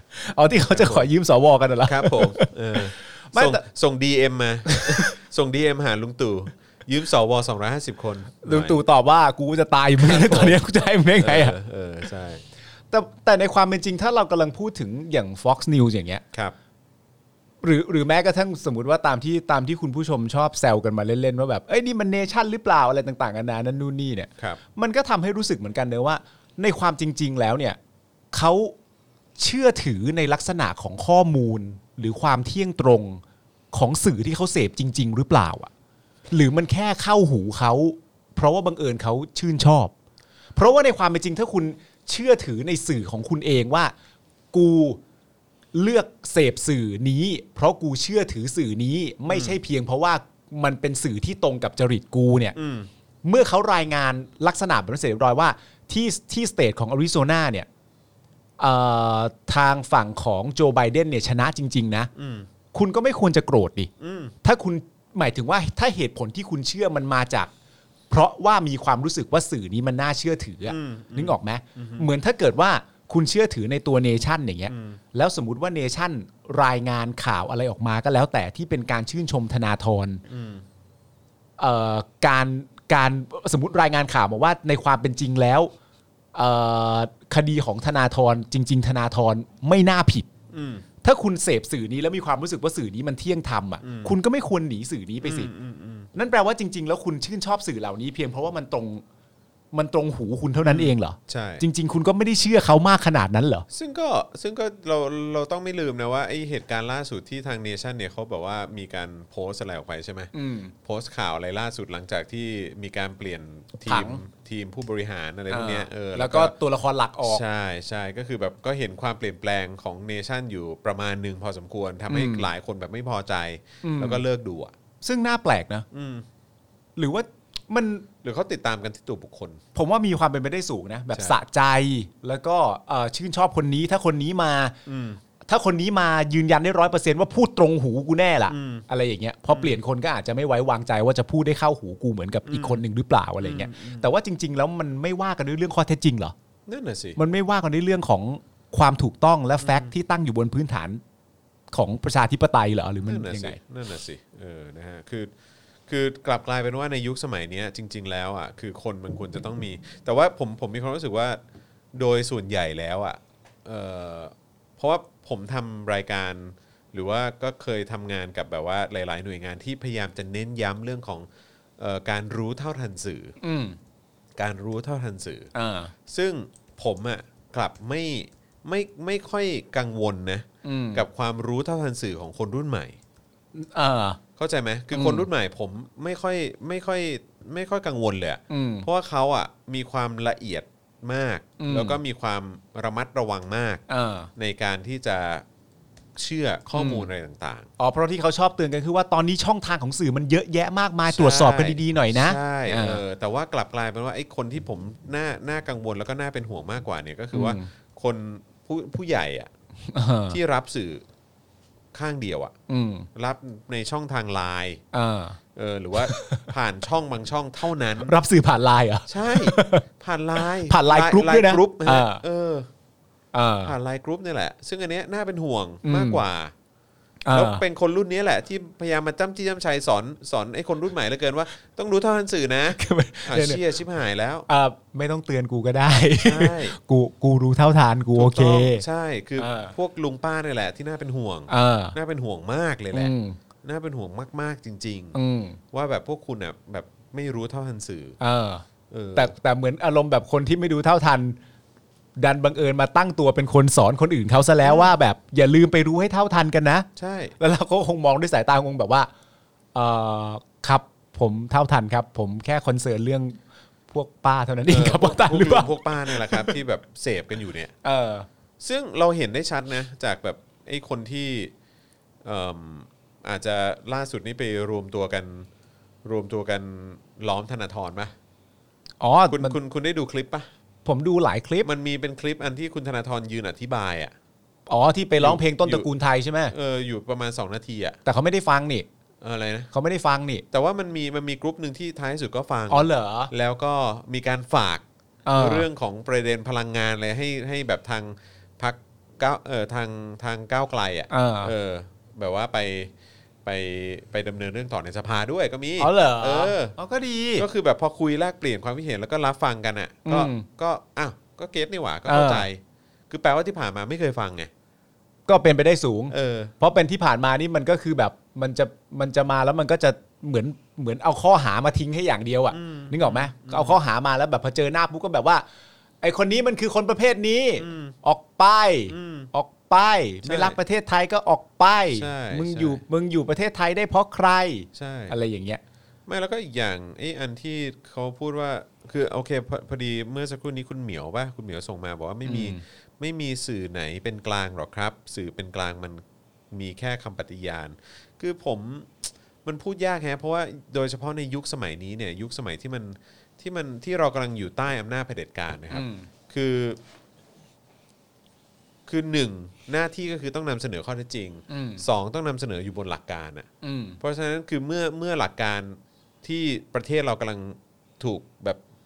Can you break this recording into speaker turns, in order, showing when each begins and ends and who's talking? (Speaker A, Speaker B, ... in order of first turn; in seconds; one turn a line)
Speaker A: 0.1-3.6
Speaker B: 0.7-1.1
Speaker B: 1.8-8.8
Speaker A: 4.7-5.1
Speaker A: 8.4-11.5
Speaker B: 10.0-10.6
Speaker B: 11.2-12.4
Speaker A: 12.9-16.2
Speaker A: 17.6-27.8
Speaker A: 28.3-28.8
Speaker A: 29.4-33.2
Speaker A: 33.7-35.7
Speaker A: 36.3-39.9
Speaker A: 40.5-43.9
Speaker A: 44.5-45.0
Speaker A: 45.7-52.5
Speaker B: 49.3-49.6
Speaker B: 52.5-52.9
Speaker A: 53.2-57.7
Speaker A: 58.6-62.1
Speaker B: 62.1-62.5
Speaker A: 62.7-63.9
Speaker B: 64.0-64.3
Speaker A: 64.4-67.5
Speaker A: 68.1-80.2
Speaker B: 70.7-72.1
Speaker B: 74.7-75.0
Speaker B: 80.3-80.6
Speaker A: 81.6-85.7
Speaker A: 86.3-90.3
Speaker B: 90.5-90.8
Speaker A: 91.0-95.5
Speaker B: 93.8-94.1
Speaker B: 95.2-96.1
Speaker A: 96.1-99.0
Speaker A: 99.7-103.7
Speaker B: 100.6-101.6
Speaker B: 103.7-110.3
Speaker A: 110.3-110.7
Speaker B: 110.8-116.5
Speaker A: 113.8-114.2
Speaker A: 115.5-117.4
Speaker B: 117.2-124.7
Speaker A: 122.1-122.5
Speaker A: 123.8-124.2
Speaker A: 125.0-125.8
Speaker B: 125.9-126.2
Speaker A: 127.0-128.1
Speaker B: 128.2-129.6
Speaker A: 129.7-134.8
Speaker B: 131.1-131.4
Speaker B: 134.8-135.2
Speaker A: 135.4-146.3
Speaker B: 138.5-138.8
Speaker B: 139.5-139.8
Speaker B: 142.4-142.8
Speaker B: 143.4-144.1
Speaker B: 146.7-147.2
Speaker A: 147.2-151.0
Speaker B: 149.6-149.9
Speaker A: 151.7-153.6
Speaker B: 153.1-155.3
Speaker B: 155.9-161.4
Speaker B: 161.9-171.3
Speaker B: 171.8-173.4
Speaker A: 173.4-173.8
Speaker B: 174.4-175.5
Speaker A: 175.5-175.9
Speaker B: 176.1-183.0
Speaker A: 180.6-181.0
Speaker A: 183.5-184.2
Speaker B: 184.4-193.8
Speaker A: 184.9-185.2
Speaker A: 188.5-188.9
Speaker A: 191.6-192.0
Speaker A: 193.9-194.3
Speaker B: 194.3-195.4
Speaker B: 196.2-197.7
Speaker A: 196.7-197.1
Speaker A: 197.8-203.0
Speaker B: 201.1-209.5
Speaker A: 207.3-207.7
Speaker A: 209.9-210.4
Speaker B: 210.3-211.0
Speaker B: 211.9-212.5
Speaker A: 212.7-213.1
Speaker B: 213.1-214.8
Speaker A: 214.9-215.4
Speaker B: 215.5-218.1
Speaker A: 216.0-216.5
Speaker A: 218.0-219.8
Speaker B: 219.1-222.7
Speaker A: 220.4-222.2
Speaker A: 223.3-223.7
Speaker B: 223.6-226.5
Speaker A: 225.8-226.2
Speaker A: 227.2-227.6
Speaker B: 227.3-234.4
Speaker A: 232.7-233.6
Speaker A: 234.5-238.8
Speaker B: 236.2-236.8
Speaker B: 238.1-245.2
Speaker A: 239.4-239.7
Speaker A: 241.5-241.9
Speaker A: 242.9-243.4
Speaker A: 245.1-245.6
Speaker B: 245.7-248.2
Speaker A: 248.2-251.4
Speaker B: 248.9-249.3
Speaker A: 252.2-256.9
Speaker B: 254.6-254.9
Speaker B: 257.0-257.4
Speaker A: 257.4-259.1
Speaker A: 259.7-263.4
Speaker A: 263.9-266.6
Speaker B: 264.7-267.7
Speaker A: 267.8-268.3
Speaker B: 268.6-271.5
Speaker B: 272.2-275.5
Speaker B: 276.0-278.1
Speaker A: 279.0-279.6
Speaker B: 279.3-280.5
Speaker A: 280.8-281.7
Speaker B: 281.6-284.1
Speaker A: 284.7-286.5
Speaker B: 285.2-285.9
Speaker B: 286.5-288.0
Speaker A: 288.0-288.9
Speaker B: 289.2-289.7
Speaker A: 289.7-290.4
Speaker B: 290.5-294.8
Speaker A: 292.7-293.3
Speaker A: 295.2-295.6
Speaker B: 295.4-302.9
Speaker A: 301.1-301.5
Speaker B: 303.4-306.7
Speaker A: 305.8-307.5
Speaker B: 307.4-314.5
Speaker A: 310.0-310.4
Speaker A: 312.1-312.4
Speaker A: 315.3-325.4
Speaker B: 316.1-316.5
Speaker B: 322.5-323.8
Speaker A: 326.0-335.6
Speaker B: 327.6-327.9
Speaker B: 328.9-329.3
Speaker B: 330.2-330.6
Speaker B: 331.9-332.8
Speaker B: 334.7-335.1
Speaker B: 336.1-356.8
Speaker A: 342.2-342.6
Speaker A: 355.7-356.1
Speaker B: 358.9-363.5
Speaker A: 361.5-361.8
Speaker A: 363.6-364.0
Speaker B: 364.0-368.6